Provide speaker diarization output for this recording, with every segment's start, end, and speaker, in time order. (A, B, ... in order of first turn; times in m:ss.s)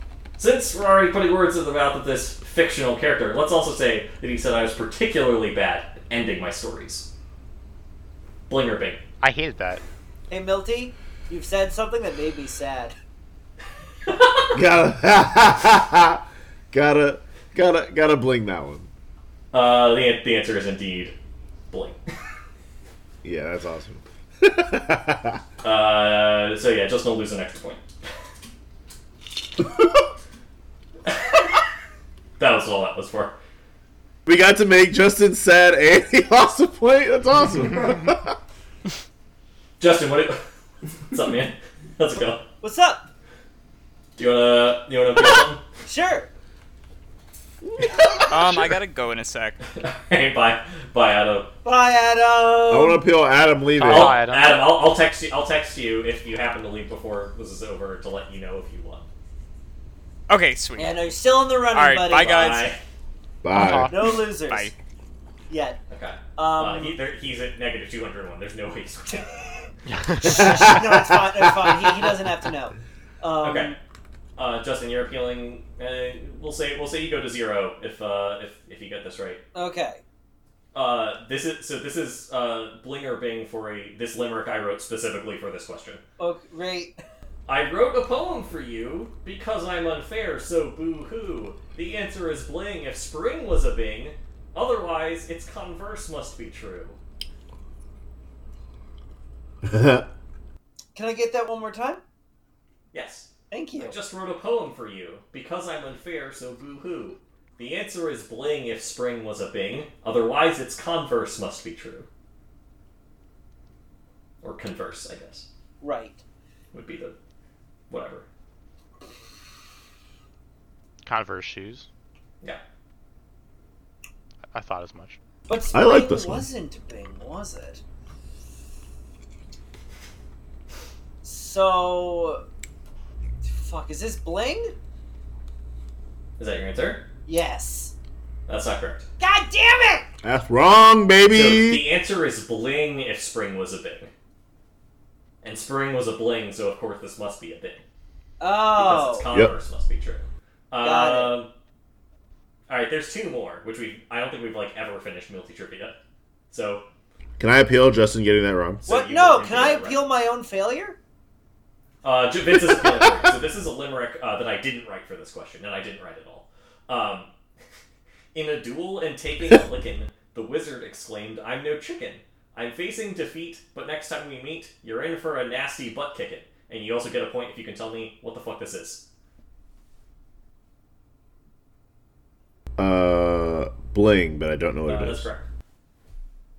0:00.4-0:07.1 A
0:08.5-0:09.0 A
0:09.2-0:09.8 B
0:10.3-0:13.0 C
0:14.1-0:14.4 A
0:14.5-0:18.9 D
0:19.5-0:21.2 A
0:21.7-0:22.0 A
0:23.2-0:25.4 D
0:25.6-0:27.8 A
0:31.1-0:31.5 A
0:32.4-0:33.4 A
0:34.3-0:38.4 D
0:39.8-0:40.4 A
0:41.1-0:42.4 A
0:42.6-0:43.1 C
0:44.2-0:45.6 A
0:45.9-0:46.3 C
0:47.6-0:48.5 D
0:48.3-0:49.7 E
0:49.8-0:51.5 A
0:51.6-0:53.0 C
0:52.7-0:54.2 D
0:53.8-0:54.7 B
0:53.8-0:59.1 A
1:00.3-1:02.8 E
1:00.8-1:02.6 C
1:02.3-1:02.8 A
1:03.4-1:04.1 D
1:03.5-1:04.1 B
1:03.9-1:04.7 C
1:04.2-1:04.8 E
1:05.5-1:05.8 C
1:05.9-1:09.3 A
1:06.4-1:07.0 C
1:09.9-1:10.7 B
1:10.2-1:13.8 C
1:13.4-1:13.8 A
1:14.4-1:19.4 A
1:19.5-1:20.0 C
1:20.7-1:26.0 A
1:26.2-1:27.0 C
1:27.5-1:37.0 A
1:39.6-1:40.1 D
1:41.0-1:42.0 C
1:42.9-1:52.1 A
1:43.5-1:44.0 C
1:54.4-1:55.5 A
1:55.8-1:56.2 C
1:56.7-1:57.2 A
1:57.9-1:58.3 A
2:01.0-2:01.9 B
2:04.5-2:05.2 B
2:05.5-2:07.8 C
2:05.7-2:06.5 D
2:11.2-2:12.4 C
2:13.4-2:14.7 C
2:16.4-2:17.0 A
2:17.3-2:17.9 C
2:18.5-2:19.1 A
2:19.2-2:20.1 C
2:20.2-2:21.8 D
2:21.3-2:24.1 A
2:25.4-2:27.8 A
2:28.4-2:29.3 C
2:28.8-2:31.5 A
2:29.3-2:29.6 D
2:30.8-2:31.4 C
2:32.7-2:36.0 A
2:36.5-2:36.8 A
2:37.4-2:38.8 D
2:38.8-2:40.0 A
2:38.8-2:41.0 C
2:42.0-2:47.3 A
2:48.3-2:59.0 A
3:02.8-3:05.3 D
3:04.9-3:05.5 A